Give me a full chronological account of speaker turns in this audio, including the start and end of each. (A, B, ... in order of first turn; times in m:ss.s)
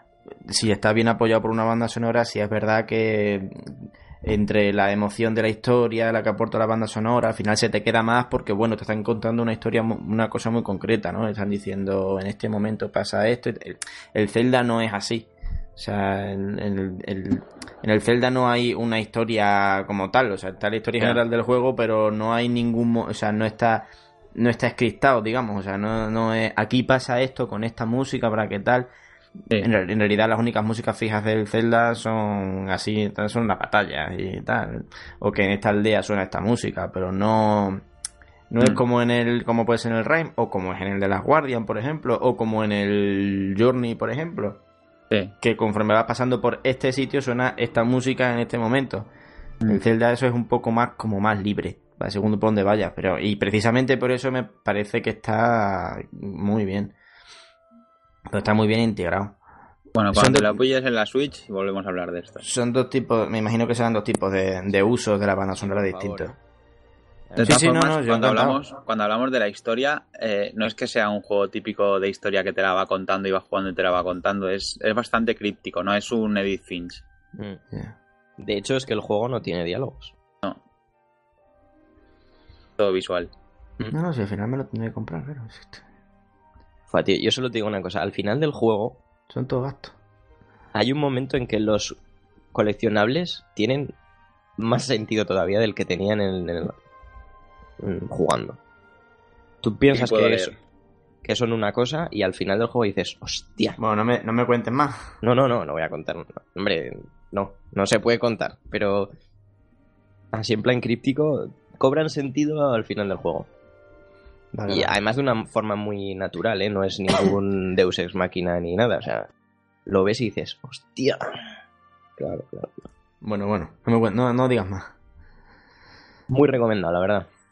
0:00.4-0:28.9 A
0:29.6-0:37.8 A
0:38.5-0:44.6 A
0:45.4-0:49.1 A
0:49.7-0:56.9 A
0:58.3-0:59.4 A
0:59.9-1:02.4 B
1:00.1-1:00.6 A
1:02.4-1:06.4 A
1:05.6-1:06.4 C
1:07.3-1:07.6 C
1:07.4-1:17.0 B
1:07.4-1:08.6 A
1:17.7-1:18.0 A
1:18.4-1:20.1 C
1:22.8-1:23.3 B
1:23.9-1:25.8 A
1:26.9-1:29.0 C
1:29.3-1:29.9 A
1:30.7-1:32.0 C
1:32.5-1:33.9 C
1:34.6-1:36.7 C
1:37.8-1:38.6 C
1:39.6-1:40.5 C
1:39.9-1:40.5 B
1:41.2-1:43.8 C
1:43.8-1:45.0 A
1:45.2-1:49.1 C
1:50.3-1:53.5 C
1:54.5-1:55.0 A
1:54.7-1:59.3 C
1:59.9-2:01.2 C
2:02.2-2:02.7 C
2:03.2-2:04.9 A
2:06.3-2:07.3 C